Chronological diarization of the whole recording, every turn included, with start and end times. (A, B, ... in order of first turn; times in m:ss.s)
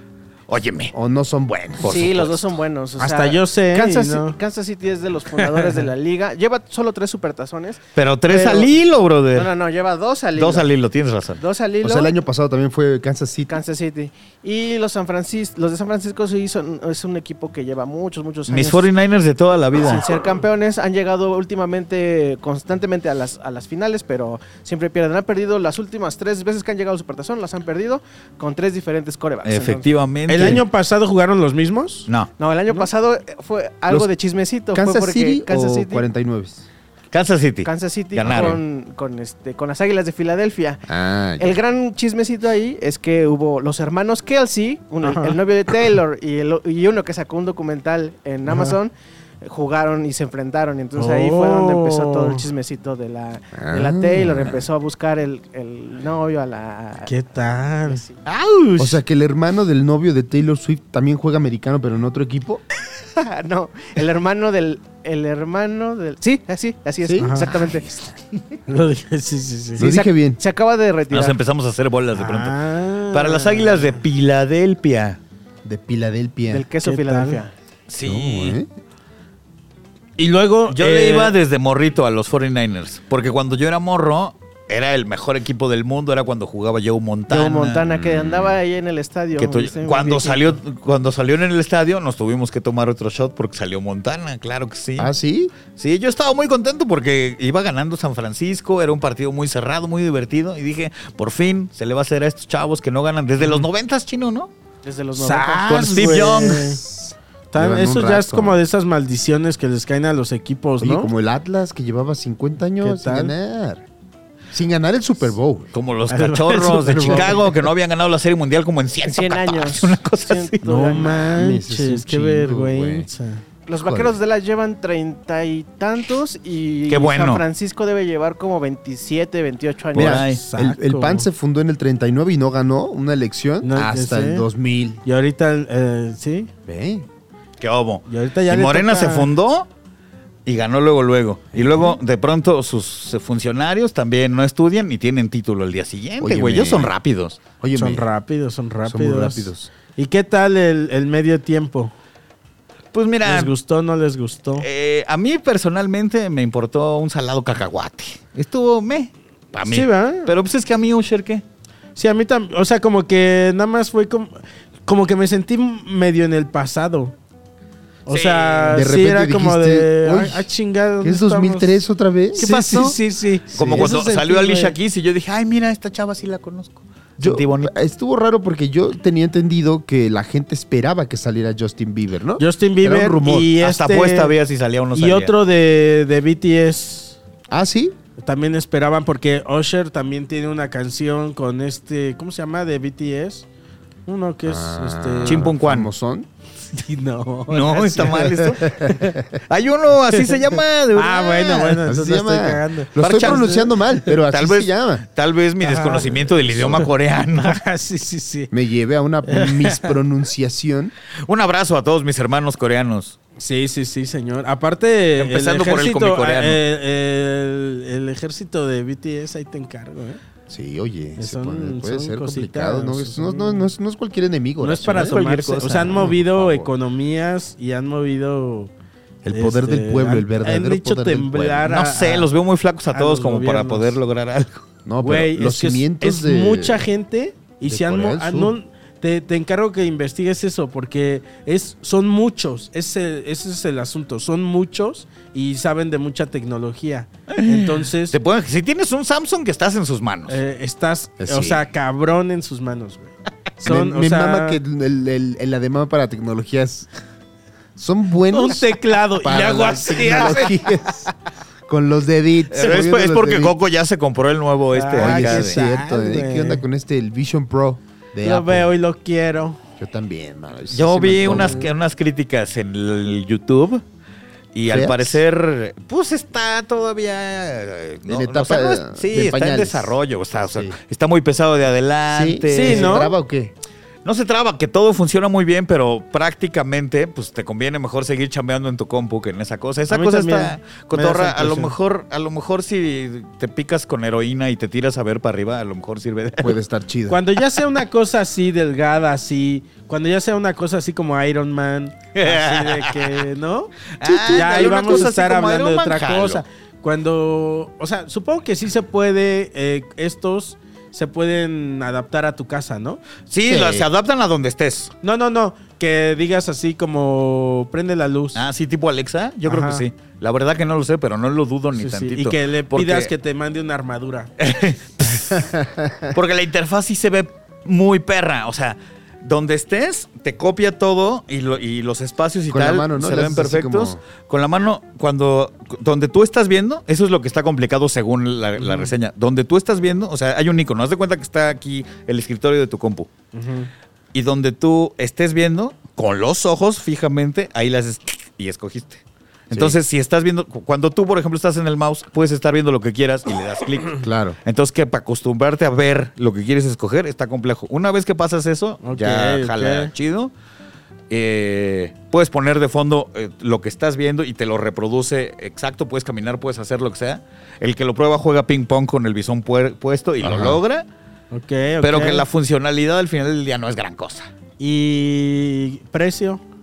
0:00.5-0:00.9 A
0:00.9-0:02.0 B
0:01.8-0:02.4 A
0:01.8-0:08.7 C
0:03.0-0:04.4 D
0:07.9-0:09.5 A
0:09.3-0:10.7 C
0:10.4-0:11.4 A
0:11.4-0:12.1 C
0:11.8-0:13.5 B
0:13.5-0:18.9 C
0:18.5-0:20.1 A
0:19.8-0:29.9 C
0:29.4-0:30.6 A
0:30.3-0:32.1 D
0:32.4-0:36.0 C
0:34.7-0:36.6 B
0:37.1-0:38.6 A
0:37.6-0:40.8 C
0:38.2-0:38.6 B
0:40.9-0:41.6 B
0:41.4-0:57.1 C
0:45.0-0:45.4 D
0:48.5-0:48.7 D
0:51.0-0:52.4 D
0:53.5-0:54.6 B
0:57.0-0:58.0 D
0:57.9-0:58.2 C
0:58.2-0:59.0 A
0:58.8-1:02.6 B
1:03.2-1:07.8 C
1:07.0-1:08.2 B
1:07.2-1:07.5 D
1:08.7-1:09.9 D
1:09.8-1:10.4 B
1:09.8-1:11.4 C
1:11.1-1:12.6 A
1:12.1-1:14.0 D
1:13.1-1:15.2 A
1:15.6-1:16.7 B
1:16.5-1:17.5 C
1:16.8-1:17.4 D
1:17.9-1:18.6 A
1:18.0-1:18.7 B
1:20.2-1:21.3 D
1:20.7-1:28.5 A
1:27.3-1:30.6 C
1:29.4-1:35.1 A
1:35.0-1:35.5 B
1:35.7-1:44.5 A
1:43.4-1:43.6 D
1:44.8-1:46.1 C
1:45.2-1:46.8 D
1:45.6-1:46.8 A
1:46.6-1:48.6 B
1:47.5-1:51.1 D
1:50.8-1:53.8 B
1:52.8-1:53.3 D
1:54.5-1:55.7 B
1:55.7-2:01.0 A
1:56.1-1:57.5 D
1:59.0-2:01.3 C
2:00.6-2:03.4 D
2:01.1-2:03.1 B
2:03.7-2:10.3 C
2:03.8-2:04.2 B
2:06.9-2:07.4 A
2:09.9-2:10.4 A
2:09.9-2:15.0 B
2:10.3-2:11.3 D
2:13.6-2:14.5 D
2:15.0-2:16.5 D
2:16.6-2:17.1 B
2:17.6-2:19.7 A
2:18.1-2:19.3 D
2:20.4-2:27.4 A
2:26.2-2:26.9 B
2:27.6-2:28.1 B
2:27.7-2:31.9 D
2:28.8-2:29.7 B
2:32.9-2:33.5 A
2:33.2-2:34.6 D
2:34.6-2:41.4 A
2:39.6-2:40.3 D
2:42.0-2:47.1 D
2:48.0-2:51.8 D
2:48.1-2:48.8 A
2:48.7-2:50.5 B
2:51.0-2:52.6 B
2:52.3-2:54.7 D
2:52.4-2:53.0 A
2:53.5-2:57.7 A
2:53.5-2:53.9 B
2:57.2-3:03.5 B
3:02.4-3:04.3 D
3:03.6-3:05.3 A
3:04.9-3:07.2 D
3:07.5-3:07.9 B
3:08.2-3:13.4 D
3:14.0-3:15.5 D
3:14.4-3:16.3 B
3:15.2-3:15.9 A
3:16.7-3:19.2 D
3:17.5-3:18.9 A
3:19.5-3:21.8 A
3:20.9-3:24.1 D
3:21.8-3:25.0 B
3:23.0-3:23.5 A
3:24.3-3:27.6 A
3:25.6-3:26.9 D
3:27.4-3:28.5 D
3:28.5-3:30.9 B
3:29.2-3:29.9 D
3:31.2-3:33.2 A
3:33.4-3:40.2 D
3:35.2-3:36.6 A
3:40.5-3:45.2 B
3:41.2-3:43.7 D
3:44.6-3:48.7 D
3:44.8-3:46.0 A
3:45.7-3:46.7 B
3:49.2-3:51.7 B
3:49.3-3:52.3 D
3:51.6-3:54.6 A
3:52.9-3:54.0 D
3:54.8-3:56.8 B
3:55.0-4:08.2 D
3:57.6-3:58.5 B
4:07.3-4:10.4 A
4:10.3-4:14.6 D
4:11.2-4:11.6 B
4:13.6-4:16.9 B
4:17.8-4:21.1 B
4:18.3-4:20.7 D
4:21.7-4:23.6 B
4:22.5-4:25.6 A
4:24.7-4:26.6 D
4:25.0-4:28.7 B
4:28.2-4:29.6 D
4:29.8-4:31.7 B
4:30.7-4:33.8 A
4:34.5-4:43.1 A
4:34.7-4:35.2 B
4:38.0-4:40.0 B
4:40.5-4:40.8 B
4:42.1-4:43.5 B
4:42.5-4:43.1 D
4:44.0-4:56.6 A
4:49.9-4:51.7 D
4:56.4-4:57.2 B
4:57.1-5:13.0 D
5:02.1-5:03.2 A
5:04.0-5:06.4 A
5:13.3-5:14.9 A
5:13.4-5:13.9 B
5:15.0-5:18.4 D
5:18.3-5:23.1 A
5:19.4-5:19.8 D
5:21.7-5:24.3 D
5:24.4-5:25.5 A
5:25.4-5:26.1 B
5:26.1-5:43.1 A
5:32.5-5:34.0 B
5:38.6-5:38.9 D
5:43.3-5:43.7 D
5:44.1-6:00.3 A
5:49.5-5:49.8 B
5:54.0-5:54.4 B
5:58.8-5:59.9 D
6:01.1-6:10.8 A
6:10.2-6:10.6 B
6:11.3-6:12.2 D
6:11.8-6:14.3 A
6:14.6-6:16.4 D